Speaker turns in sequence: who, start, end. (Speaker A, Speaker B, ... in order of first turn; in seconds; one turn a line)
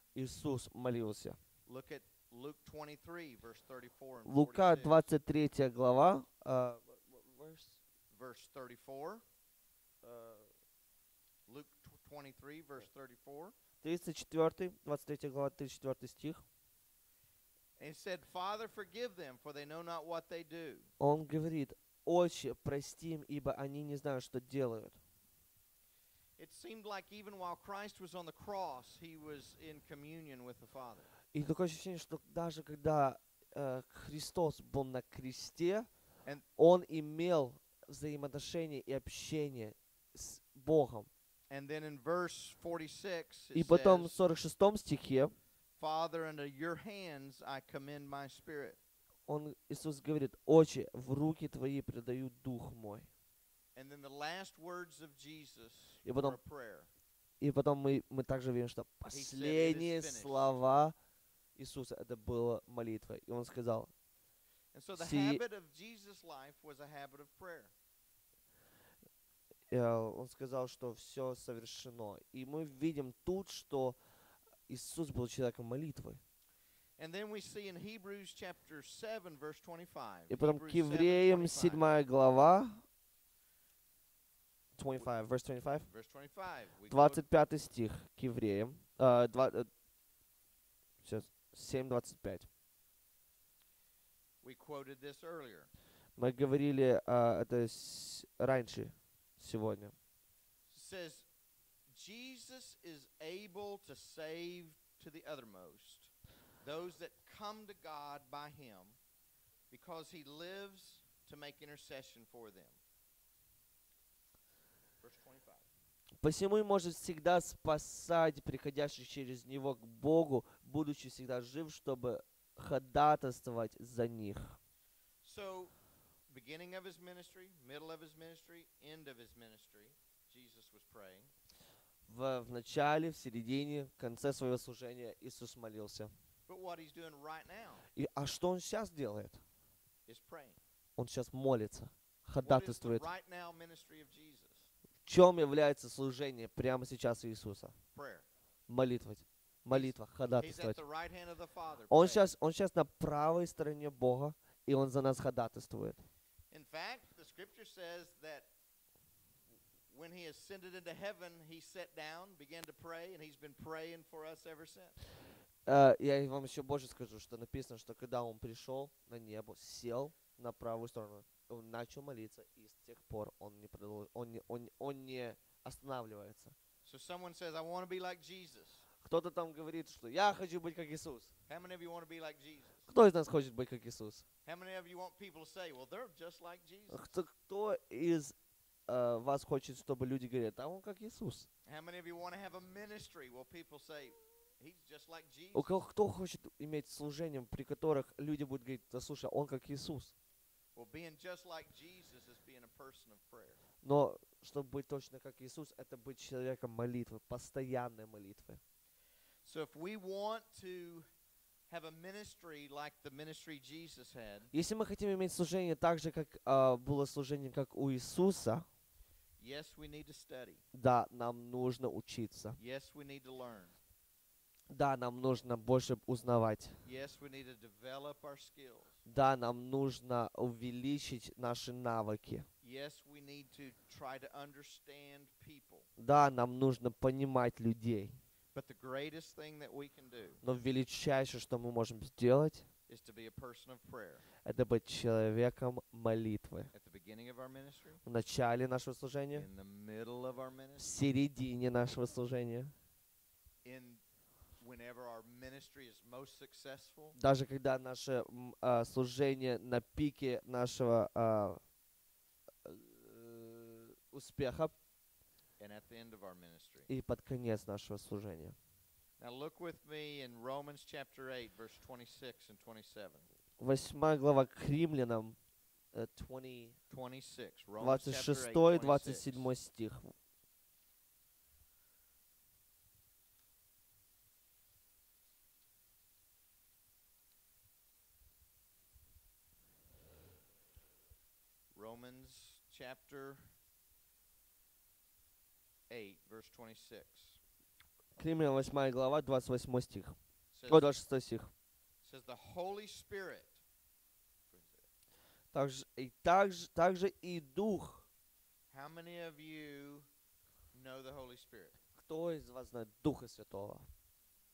Speaker A: 0.1-1.4
Speaker B: 1.7-5.1
Speaker A: 4.2-7.8
Speaker B: 8.1-9.2
Speaker A: 10.0-10.5
Speaker B: 11.5-13.5
Speaker A: 13.8-16.4
Speaker B: 17.8-20.9
Speaker A: 21.0-25.0
Speaker B: 26.4-31.1
Speaker A: 31.3-35.9
Speaker A: 36.6-41.1
Speaker B: 41.5-44.2
Speaker A: 43.5-45.4
Speaker B: 45.8-48.8
Speaker A: 49.3-53.1
Speaker B: 53.7-56.9
Speaker A: 56.0-56.4
Speaker A: 57.4-60.9
Speaker B: 59.1-60.5
Speaker A: 61.5-63.9
Speaker B: 64.7-67.7
Speaker A: 65.0-65.4
Speaker A: 69.7-74.0
Speaker A: 74.7-76.2
Speaker B: 77.0-81.9
Speaker A: 80.3-82.8
Speaker A: 84.8-85.9
Speaker B: 85.8-87.2
Speaker A: 86.9-89.7
Speaker A: 91.0-92.5
Speaker B: 94.4-95.7
Speaker A: 96.2-99.9
Speaker B: 100.7-101.3
Speaker B: 101.9-106.1
Speaker B: 106.6-109.0
Speaker B: 109.7-112.8
Speaker B: 115.0-115.7
Speaker A: 116.2-124.6
Speaker B: 125.2-125.7
Speaker B: 126.3-131.3
Speaker A: 132.1-136.1
Speaker B: 136.5-137.9
Speaker A: 137.9-139.4
Speaker B: 140.1-140.6
Speaker A: 141.0-143.0
Speaker B: 142.4-144.7
Speaker A: 145.1-147.7
Speaker B: 147.9-148.2
Speaker A: 148.7-150.8
Speaker B: 149.7-152.3
Speaker A: 151.9-156.0
Speaker B: 156.5-158.5
Speaker B: 159.9-164.9
Speaker A: 165.7-176.5
Speaker B: 176.8-178.9
Speaker A: 179.0-181.3
Speaker B: 181.5-182.9
Speaker A: 182.9-184.2
Speaker B: 184.4-187.1
Speaker A: 186.9-188.3
Speaker A: 188.9-191.5
Speaker B: 191.7-195.8
Speaker A: 195.5-200.1
Speaker B: 200.7-203.6
Speaker A: 203.8-208.6
Speaker B: 209.4-211.0
Speaker B: 211.7-214.5
Speaker A: 214.5-218.7
Speaker B: 219.4-220.6
Speaker A: 220.7-222.6
Speaker B: 222.6-223.8
Speaker A: 224.7-226.8
Speaker B: 226.8-229.0
Speaker A: 229.1-232.5
Speaker B: 232.6-235.9
Speaker A: 236.0-238.2
Speaker B: 238.5-240.4
Speaker A: 240.4-242.7
Speaker B: 242.9-244.2
Speaker A: 244.4-246.7
Speaker B: 246.7-248.0
Speaker A: 248.0-249.5
Speaker B: 249.3-250.9
Speaker A: 250.8-252.7
Speaker B: 253.6-254.0
Speaker B: 254.6-257.1
Speaker A: 257.1-261.6
Speaker A: 262.6-264.7
Speaker B: 265.6-266.9
Speaker A: 266.9-268.6
Speaker B: 269.2-273.2
Speaker A: 273.6-275.4
Speaker A: 275.9-276.8
Speaker B: 276.9-279.5
Speaker A: 277.8-280.1
Speaker B: 291.7-293.5
Speaker B: 295.9-297.4
Speaker A: 298.2-300.1
Speaker B: 300.5-300.9
Speaker A: 300.7-301.5
Speaker B: 302.0-303.6
Speaker B: 304.5-304.9
Speaker A: 305.5-308.1
Speaker B: 308.7-310.1
Speaker B: 310.7-311.8
Speaker A: 312.0-313.9